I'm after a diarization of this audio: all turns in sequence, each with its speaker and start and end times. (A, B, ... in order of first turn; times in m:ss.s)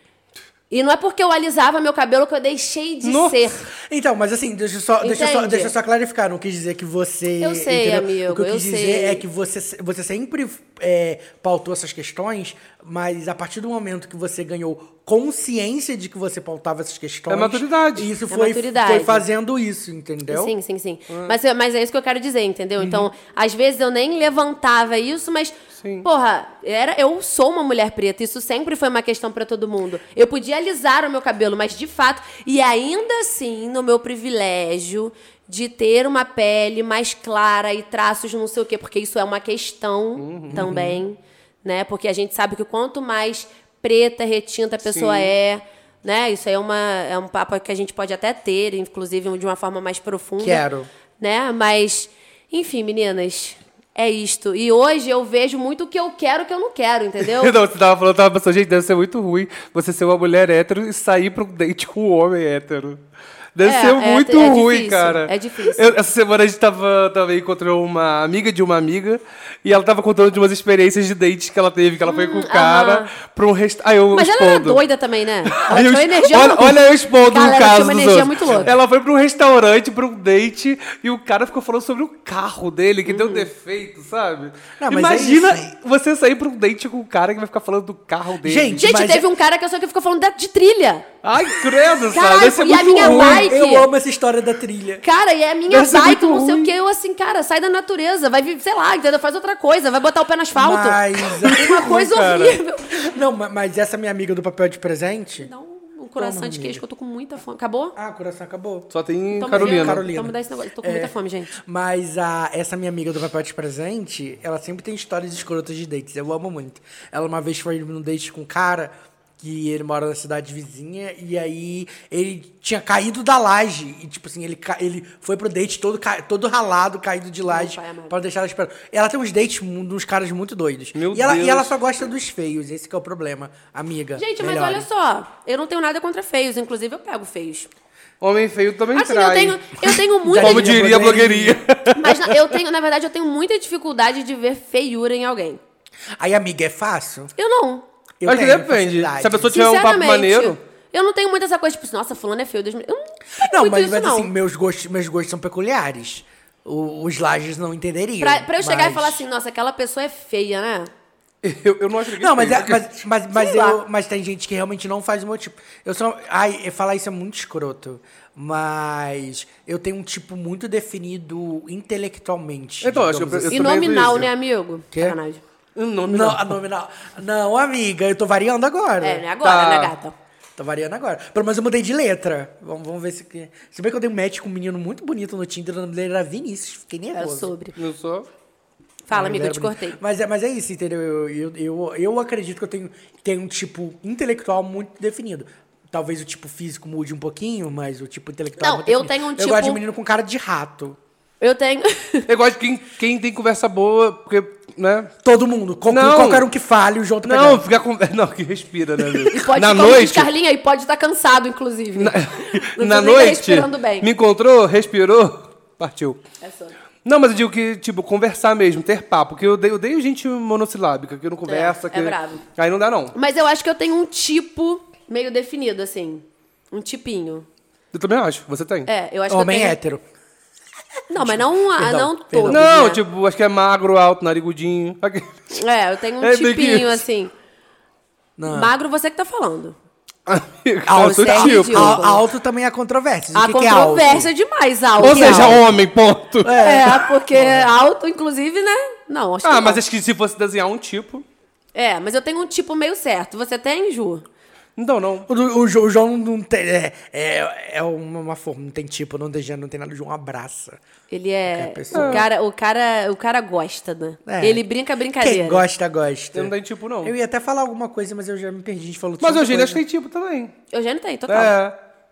0:00.7-0:03.7 A
0:03.0-0:03.5 B
0:03.8-0:20.5 C
0:05.0-0:05.7 A
0:07.4-0:09.2 A
0:17.3-0:18.1 B
0:18.3-0:19.2 A
0:20.3-0:50.6 A
0:21.1-0:21.4 B
0:22.8-0:23.1 C
0:25.8-0:26.1 B
0:40.2-0:40.7 B
0:40.5-0:41.0 C
0:44.8-0:45.3 B
0:50.4-0:50.9 C
0:51.2-0:57.5 A
0:57.2-1:03.0 B
1:03.5-1:14.8 B
1:03.6-1:06.0 A
1:12.0-1:13.1 A
1:14.1-1:18.7 A
1:15.4-1:28.8 B
1:18.4-1:18.7 C
1:23.0-1:23.5 A
1:24.8-1:25.7 C
1:28.4-1:29.2 C
1:28.8-1:31.1 A
1:31.2-1:33.5 B
1:32.1-1:33.9 A
1:32.9-1:35.0 C
1:35.0-1:43.0 A
1:35.7-1:36.7 B
1:40.5-1:42.1 C
1:41.4-1:42.6 B
1:43.1-1:45.5 C
1:45.4-1:47.9 A
1:46.2-1:46.8 C
1:48.0-1:48.9 C
1:48.9-1:50.0 B
1:49.3-1:51.5 A
1:49.5-2:14.8 C
2:07.5-2:08.2 A
2:10.9-2:11.7 B
2:14.2-2:17.7 A
2:18.2-2:19.7 B
2:18.9-2:20.8 A
2:20.2-2:21.6 C
2:20.4-2:22.5 B
2:21.9-2:25.6 A
2:26.2-2:27.3 C
2:27.4-2:27.8 A
2:28.2-2:29.5 C
2:28.2-2:30.6 B
2:29.5-2:34.3 A
2:33.4-2:39.2 C
2:38.2-2:40.9 A
2:41.4-2:42.9 B
2:42.2-2:54.0 C
2:43.3-2:43.8 A
2:52.8-2:54.3 B
2:53.5-2:55.4 A
2:54.9-2:55.2 C
2:55.8-2:56.6 B
2:56.1-2:59.2 C
2:59.0-3:00.1 A
2:59.4-2:59.9 B
3:00.6-3:07.5 C
3:07.1-3:07.7 A
3:07.8-3:08.3 B
3:09.1-3:10.0 A
3:09.1-3:21.0 C
3:18.6-3:19.8 A
3:21.4-3:22.3 A
3:22.3-3:25.1 B
3:25.2-3:27.6 C
3:25.9-3:26.5 B
3:27.2-3:30.3 B
3:29.3-3:34.1 A
3:32.0-3:36.2 B
3:36.4-3:36.7 A
3:37.0-3:43.1 B
3:41.4-3:42.4 A
3:43.1-3:47.4 A
3:47.9-3:48.9 B
3:48.9-3:49.8 A
3:49.3-3:50.0 C
3:51.1-3:53.0 A
3:51.1-3:52.7 C
3:52.5-3:55.6 B
3:55.5-3:57.3 A
3:56.2-3:57.0 B
3:58.4-3:58.7 C
3:58.5-3:59.7 A
4:00.3-4:02.0 B
4:00.8-4:04.3 C
4:01.0-4:02.2 A
4:03.3-4:05.6 A
4:05.0-4:06.6 B
4:05.0-4:05.7 C
4:06.4-4:07.7 C
4:06.5-4:09.8 A
4:09.4-4:11.2 B
4:11.7-4:14.2 A
4:14.8-4:15.3 B
4:15.3-4:20.8 C
4:21.1-4:25.6 A
4:21.4-4:22.2 C
4:21.9-4:22.2 B
4:24.2-4:24.6 C
4:25.2-4:29.8 C
4:26.3-4:27.1 B
4:29.2-4:30.5 B
4:30.7-4:31.6 A
4:31.3-4:31.8 B